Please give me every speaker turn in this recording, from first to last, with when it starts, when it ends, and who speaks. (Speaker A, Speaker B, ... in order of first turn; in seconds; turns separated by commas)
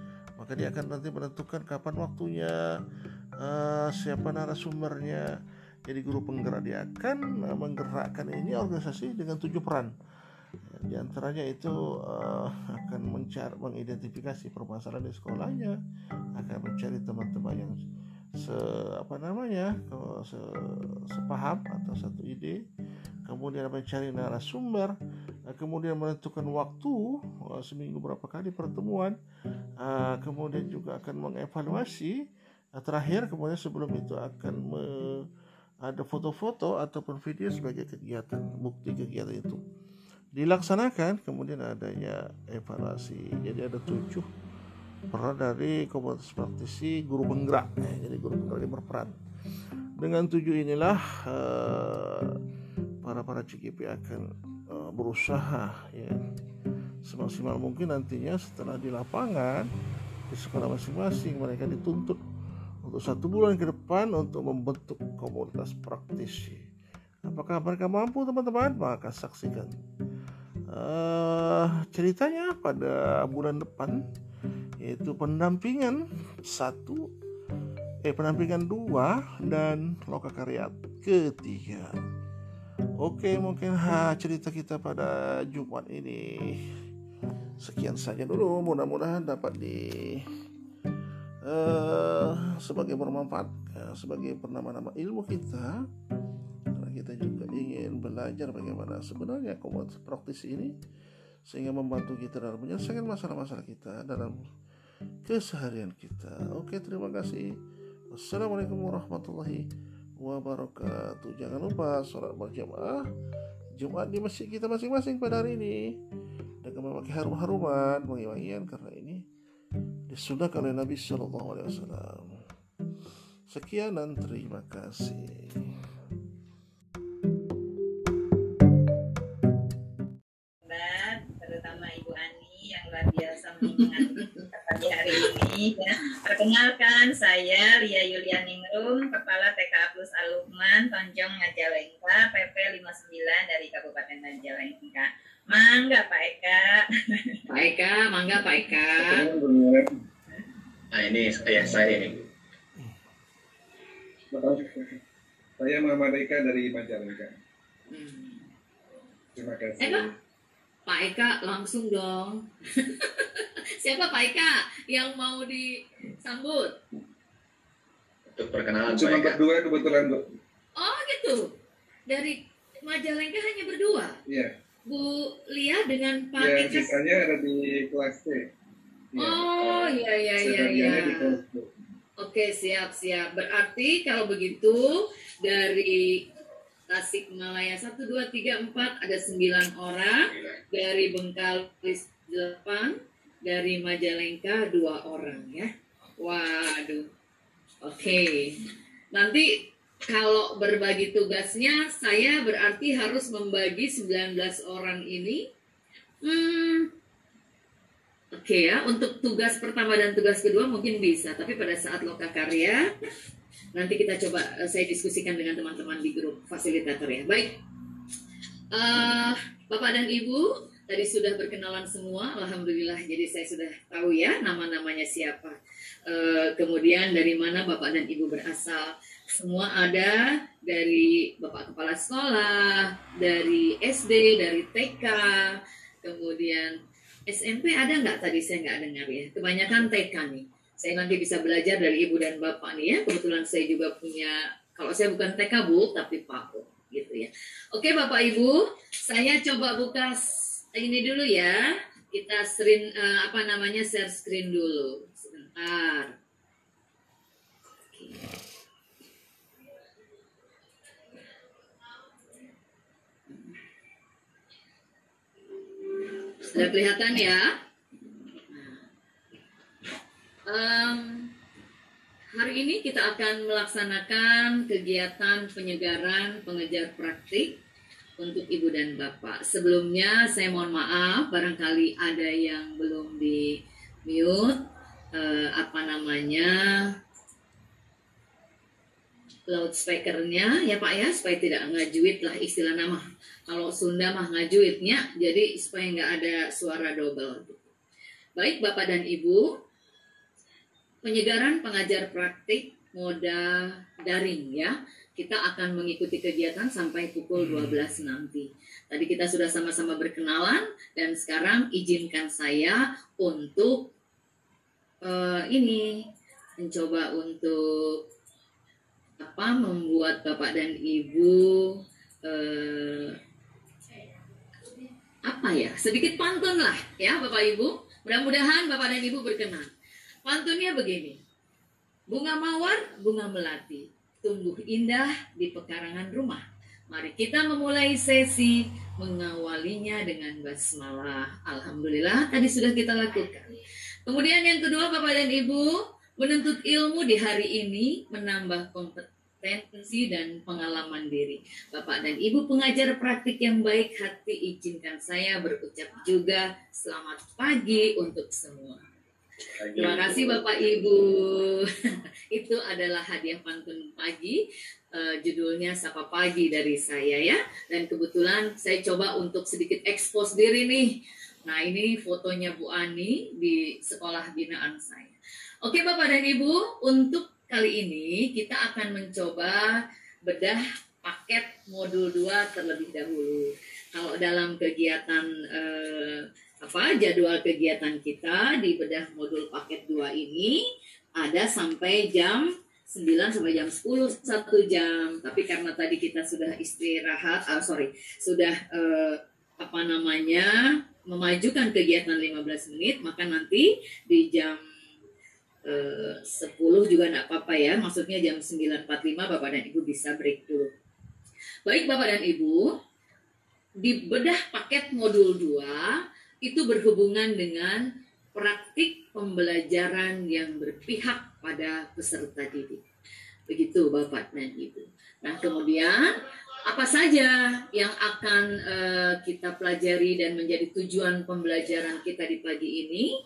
Speaker A: 0.4-2.6, Speaker A: 3.4-5.2, Speaker A: 5.9-9.9, Speaker A: 10.7-15.8, Speaker A: 16.4-17.7, Speaker A: 18.4-22.6, Speaker A: 23.3-24.9, Speaker A: 25.5-29.1, Speaker A: 29.8-32.1, Speaker A: 32.8-35.2, Speaker A: 35.9-39.6, Speaker A: 40.4-44.3, Speaker A: 45.1-49.1, Speaker A: 50.0-52.3, Speaker A: 53.0-56.2, Speaker A: 57.1-59.7, Speaker A: 60.3-62.2, Speaker A: 62.9-66.7, Speaker A: 67.3-69.8, Speaker A: 70.7-74.0, Speaker A: 74.8-77.1, Speaker A: 78.1-82.0, Speaker A: 83.0-86.6, Speaker A: 87.6-90.3, Speaker A: 91.5-95.8, Speaker A: 96.8-100.7, Speaker A: 101.5-104.4, Speaker A: 105.3-107.5, Speaker A: 108.1-109.7, Speaker A: 110.2-113.0, Speaker A: 113.8-116.0, Speaker A: 116.6-119.2, Speaker A: 120.1-122.4, Speaker A: 123.5-125.7, Speaker B: 130.7-147.4, Speaker C: 147.5-149.3, Speaker D: 149.0-149.9, Speaker E: 150.9-152.3, Speaker D: 154.3-154.9, Speaker D: 155.6-157.3, Speaker C: 157.9-158.5, Speaker D: 159.4-160.1, Speaker C: 159.8-160.1, Speaker C: 160.9-166.8, Speaker E: 168.3-169.4, Speaker D: 168.9-170.2, Speaker C: 170.8-171.5, Speaker C: 172.1-174.2, Speaker C: 174.9-176.9, Speaker D: 176.4-178.4, Speaker D: 179.1-179.9, Speaker C: 179.2-181.4, Speaker D: 180.4-181.7, Speaker C: 182.2-186.3, Speaker C: 186.9-197.1, Speaker C: 197.8-205.4, Speaker C: 206.2-206.9, Speaker C: 208.3-212.9, Speaker C: 213.8-217.6, Speaker C: 218.7-236.8, Speaker C: 237.3-256.1, Speaker C: 257.9-258.3, Speaker C: 263.3-263.6, Speaker C: 266.4-267.5, Speaker C: 268.5-268.8, Speaker C: 270.5-271.3, Speaker C: 272.4-277.6, Speaker C: 278.2-286.9, Speaker C: 289.5-297.7, Speaker C: 298.4-299.5, Speaker C: 301.0-313.9, Speaker C: 315.0-316.0, Speaker C: 316.6-318.0, Speaker C: 319.2-323.2, Speaker C: 325.3-329.7, Speaker C: 330.2-331.2, Speaker C: 332.1-343.5, Speaker C: 344.1-358.8, Speaker C: 359.7-361.7, Speaker C: 362.3-364.4, Speaker C: 364.9-390.6, Speaker C: 391.2-404.6, Speaker C: 405.6-410.7, Speaker C: 411.7-412.8, Speaker C: 413.8-422.8, Speaker C: 423.5-433.1